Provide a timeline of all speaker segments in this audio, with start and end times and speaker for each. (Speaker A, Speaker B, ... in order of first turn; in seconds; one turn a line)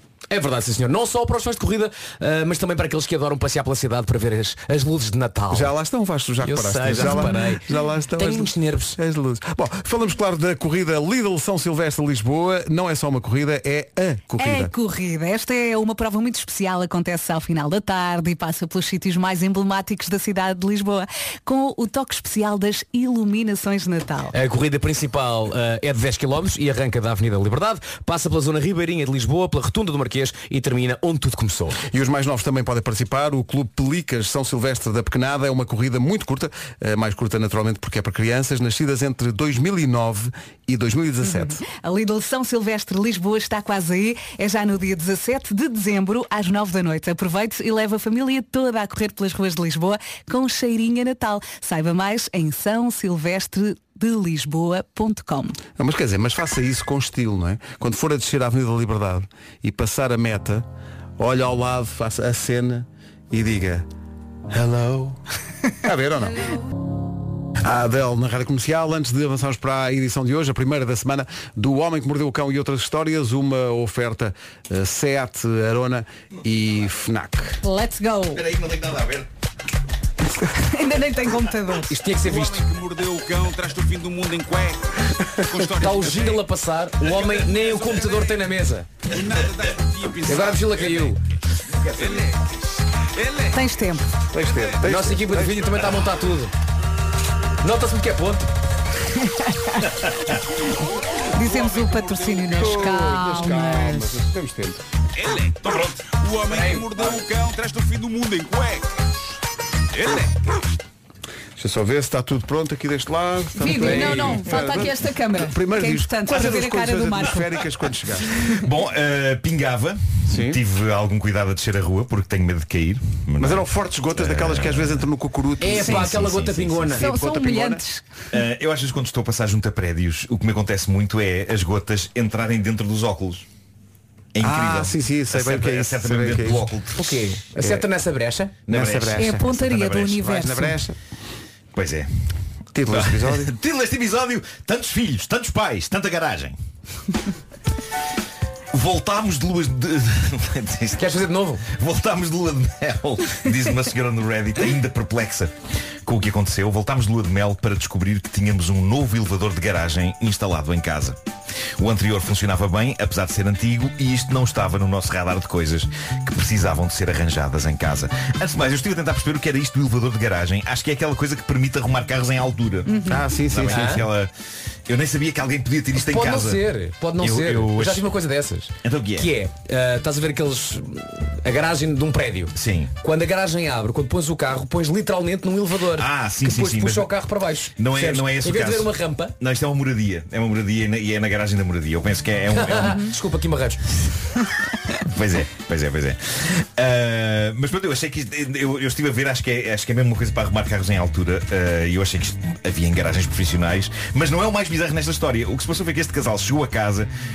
Speaker A: 0.3-5.7
Speaker B: 5.5-14.7
Speaker A: 6.4-7.7
Speaker A: 8.2-8.9
Speaker C: 14.4-24.3
Speaker A: 24.3-31.8
Speaker B: 31.9-41.6
Speaker C: 41.2-55.6
Speaker B: 55.8-60.7
Speaker B: 61.2-63.9
Speaker B: 64.5-65.2
Speaker B: 65.8-66.5
Speaker B: 67.6-77.6
Speaker C: 77.6-78.4
Speaker D: 78.3-79.3
Speaker C: 80.5-82.0
Speaker A: 81.9-82.6
Speaker E: 82.1-86.5
Speaker A: 85.7-88.9
Speaker E: 87.0-88.5
Speaker E: 89.1-91.2
Speaker A: 90.3-91.2
Speaker E: 91.8-93.7
Speaker D: 91.8-92.2
Speaker C: 93.5-94.1
Speaker B: 94.3-95.6
Speaker E: 94.3-95.0
Speaker A: 94.8-96.5
Speaker A: 97.6-98.5
Speaker C: 99.2-99.9
Speaker C: 101.3-104.3
Speaker E: 101.4-103.1
Speaker B: 102.5-104.8
Speaker E: 105.2-109.0
Speaker A: 106.5-107.0
Speaker E: 109.9-110.7
Speaker B: 111.6-118.3
Speaker C: 113.6-117.7
Speaker A: 113.8-114.4
Speaker D: 118.4-125.1
Speaker B: 120.3-120.6
Speaker B: 123.4-127.8
Speaker A: 125.6-127.0
Speaker C: 125.8-126.1
Speaker D: 126.2-126.9
Speaker C: 127.0-128.0
Speaker D: 128.3-133.5
Speaker D: 134.3-137.2
Speaker B: 134.4-136.7
Speaker A: 137.0-138.6
Speaker B: 137.6-137.8
Speaker D: 138.7-140.3
Speaker B: 138.7-139.6
Speaker C: 139.2-140.8
Speaker B: 140.2-141.0
Speaker D: 141.7-142.1
Speaker B: 142.8-143.5
Speaker D: 142.9-146.6
Speaker D: 148.7-155.5
Speaker A: 151.0-151.6
Speaker D: 156.1-161.2
Speaker D: 161.8-174.3
Speaker C: 172.9-173.2
Speaker B: 173.1-174.0
Speaker A: 173.7-174.1
Speaker D: 174.9-178.1
Speaker A: 176.0-189.3
Speaker D: 178.8-179.3
Speaker D: 182.6-182.9
Speaker D: 185.9-187.1
Speaker D: 187.8-193.2
Speaker A: 192.5-194.0
Speaker D: 194.9-207.1